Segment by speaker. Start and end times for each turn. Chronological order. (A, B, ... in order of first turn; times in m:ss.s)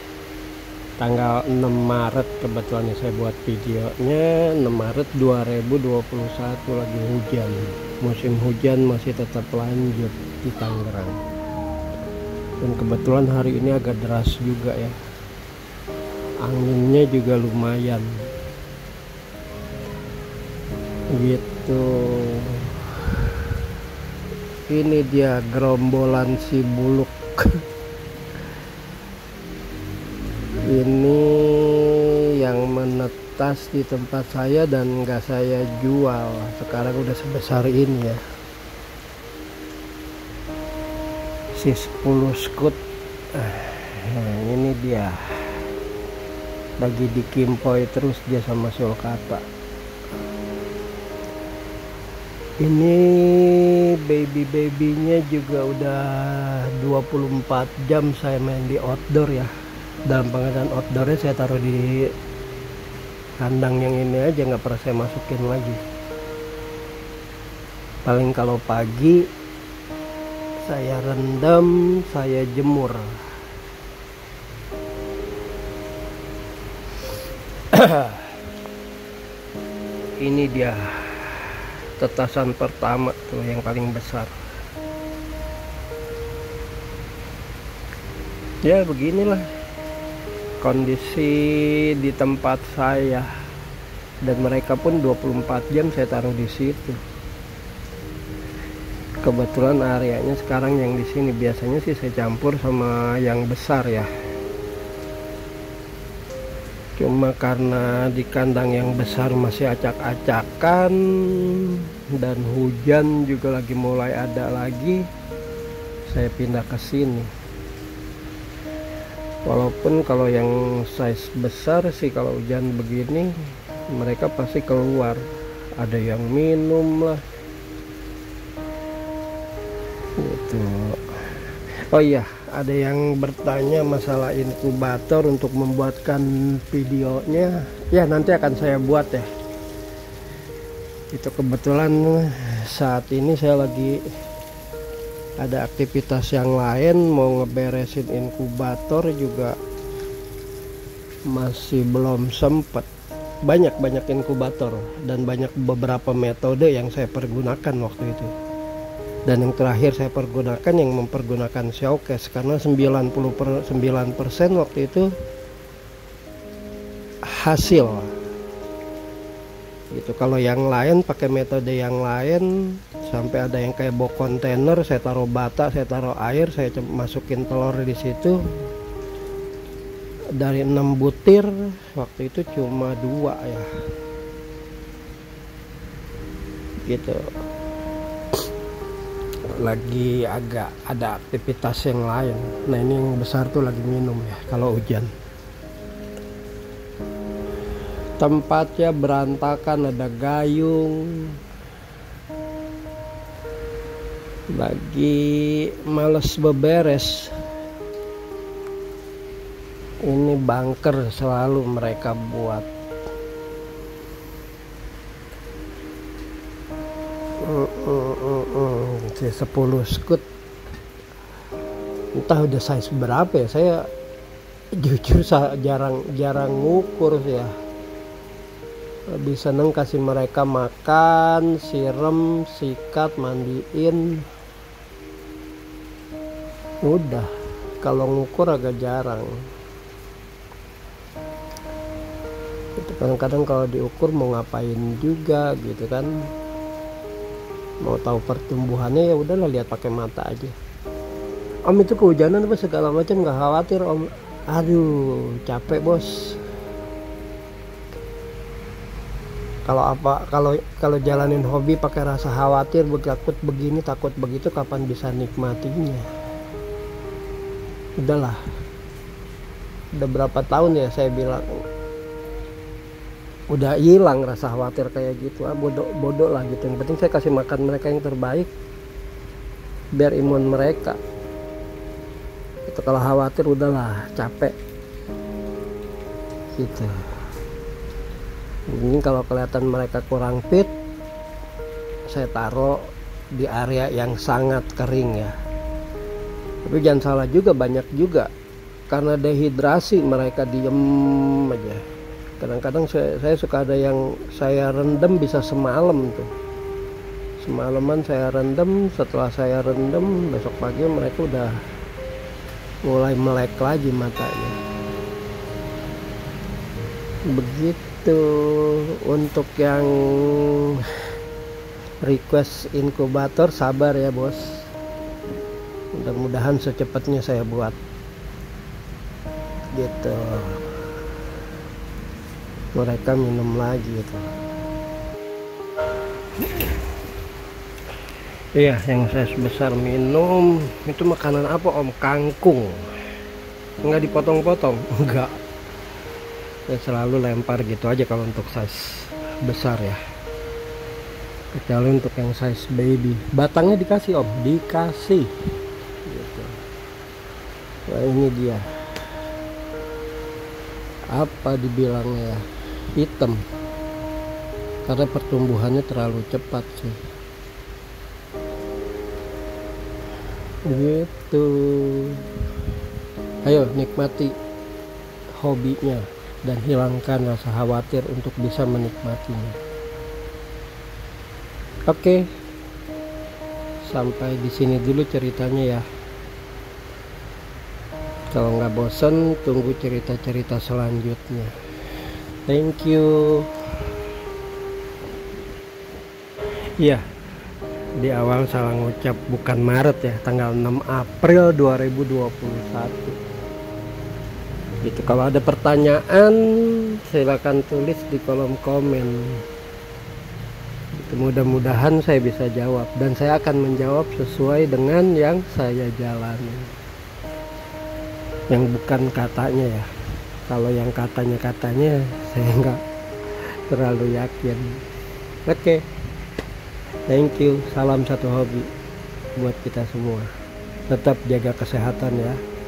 0:01.0-0:11.2 A
0:12.6-0:15.0 A
0:16.4-0:18.1 A
0:21.1-0:23.5 A
0:24.7-0:27.6 A
0:30.6-0:38.2 A
0:41.6-0:42.8 A
0:43.3-0:45.6 A
0:46.8-0:49.4 A
0:52.6-0:59.5 A
1:00.1-1:02.1 A
1:03.4-1:05.8 A
1:08.0-1:09.3 A
1:10.6-1:13.2 A
1:17.7-1:18.4 A
1:20.2-1:24.3 A
1:28.6-1:29.5 A
1:30.6-1:33.3 A
1:34.2-1:37.0 A
1:39.2-1:44.1 A
1:47.0-1:55.1 A
1:56.1-1:57.3 A
1:59.4-2:05.3 A
2:05.8-2:07.2 A
2:10.2-2:19.3 A
2:21.1-2:24.1 A
2:25.4-2:29.6 A
2:31.3-2:32.9 A
2:33.4-2:38.3 A
2:39.3-2:45.1 A
2:47.2-2:48.1 A
2:49.9-2:58.4 A
3:00.4-3:03.7 A
3:06.8-3:07.3 A
3:09.6-3:15.1 A
3:18.2-3:21.4 A
3:24.5-3:27.4 A
3:30.0-3:32.7 A
3:37.4-3:40.2 A
3:42.1-3:43.9 A
3:44.7-3:47.5 A
3:49.1-3:54.3 A
3:56.8-3:57.3 A
3:57.8-3:59.4 A
4:02.8-4:06.3 A
4:07.8-4:10.6 A
4:11.7-4:16.4 A
4:19.6-4:26.1 A
4:28.0-4:28.4 A
4:29.9-4:31.6 A
4:33.5-4:38.5 A
4:39.9-4:41.0 A
4:42.7-4:44.6 A
4:46.6-4:47.0 A
4:48.7-4:50.7 A
4:52.1-4:55.4 A
4:56.6-4:58.3 A
4:58.9-5:01.8 A
5:02.4-5:06.3 A
5:07.4-5:11.6 A
5:12.8-5:14.6 A
5:17.3-5:21.0 A
5:22.0-5:24.7 A
5:25.9-5:27.8 A
5:29.7-5:30.7 A
5:32.7-5:34.3 A
5:38.6-5:42.8 A
5:43.8-5:45.4 A
5:46.7-5:50.0 A
5:51.5-5:55.3 A
5:56.1-5:56.6 A
5:57.9-5:58.7 A
6:01.1-6:03.4 A
6:04.8-6:07.0 A
6:10.6-6:12.3 A
6:13.4-6:14.4 A
6:15.4-6:19.6 A
6:21.9-6:22.3 A
6:23.8-6:25.9 A
6:28.3-6:31.5 A
6:32.5-6:33.5 A
6:36.8-6:37.0 A
6:38.0-6:43.2 A
6:44.8-6:49.4 A
6:50.9-6:56.7 A
6:58.5-6:59.9 A
7:00.5-7:02.8 A
7:03.7-7:04.8 A
7:05.5-7:05.8 A
7:07.1-7:08.7 A
7:09.4-7:10.3 A
7:10.9-7:12.4 A